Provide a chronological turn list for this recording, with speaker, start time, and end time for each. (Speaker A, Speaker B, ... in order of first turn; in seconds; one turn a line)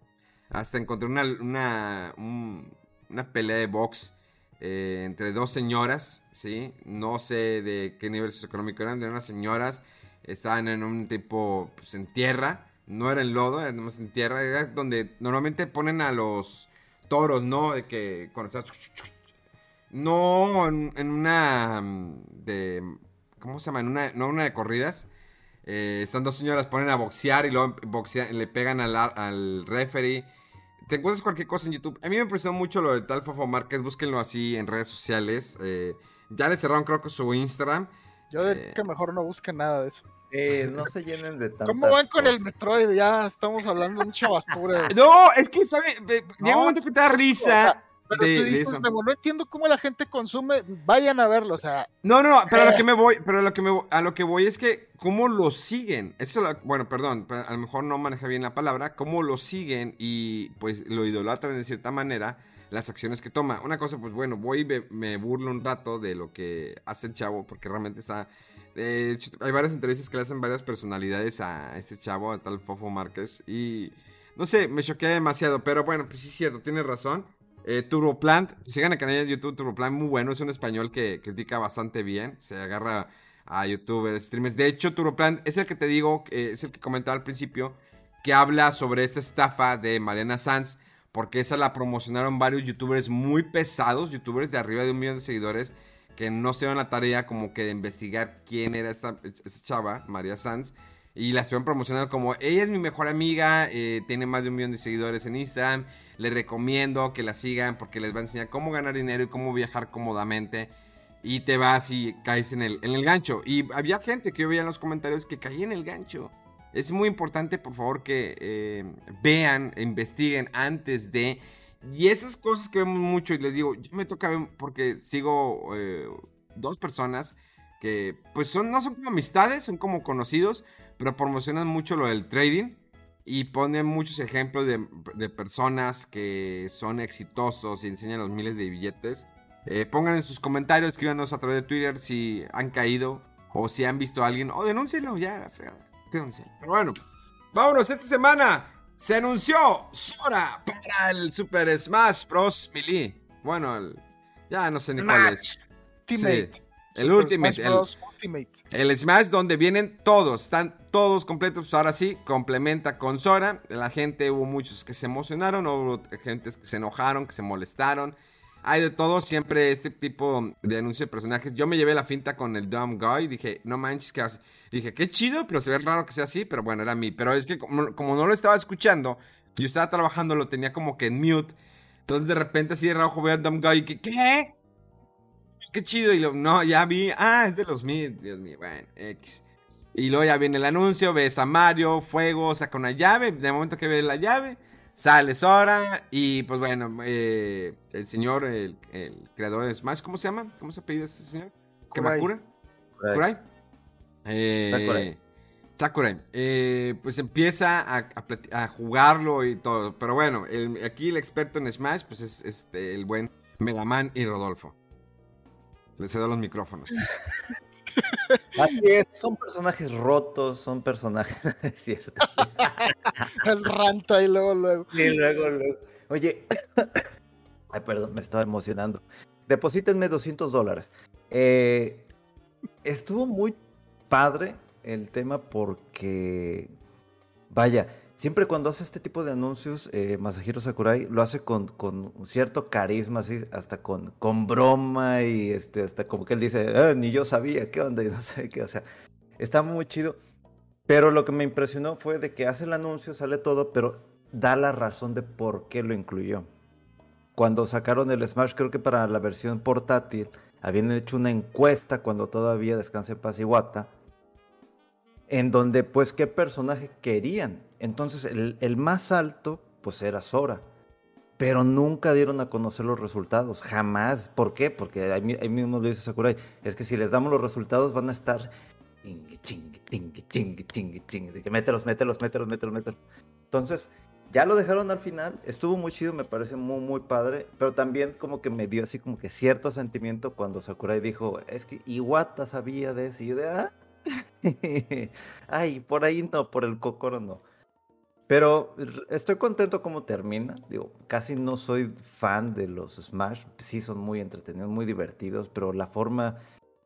Speaker A: 0.5-19.1
Speaker A: 19.9-25.1
Speaker A: 25.6-30.3
Speaker A: 30.9-38.8
Speaker B: 38.3-40.1
Speaker C: 40.3-42.5
Speaker B: 41.7-44.9
Speaker A: 44.9-48.9
Speaker B: 46.4-46.8
Speaker B: 47.4-51.9
Speaker A: 52.0-110.7
Speaker B: 52.5-52.8
Speaker A: 111.2-147.0
Speaker A: 147.5-155.5
Speaker B: 155.0-155.4
Speaker B: 156.1-158.6
Speaker A: 156.2-157.9
Speaker A: 158.7-181.6
Speaker A: 182.1-184.6
Speaker A: 185.7-189.4
Speaker A: 189.9-202.4
Speaker B: 201.9-202.3
Speaker C: 203.0-203.2
Speaker A: 203.1-203.4
Speaker A: 204.2-205.2
Speaker C: 204.7-205.1
Speaker A: 205.8-214.8
Speaker A: 216.0-217.1
Speaker B: 218.0-218.4
Speaker C: 218.6-223.3
Speaker B: 222.6-225.1
Speaker C: 224.9-227.1
Speaker C: 227.7-232.1
Speaker C: 232.8-236.7
Speaker C: 237.5-248.8
Speaker C: 249.4-250.2
Speaker C: 250.9-256.5
Speaker C: 257.4-263.9
Speaker C: 265.3-270.6
Speaker C: 271.4-278.5
Speaker C: 279.0-293.8
Speaker C: 294.4-297.4
Speaker C: 298.3-306.4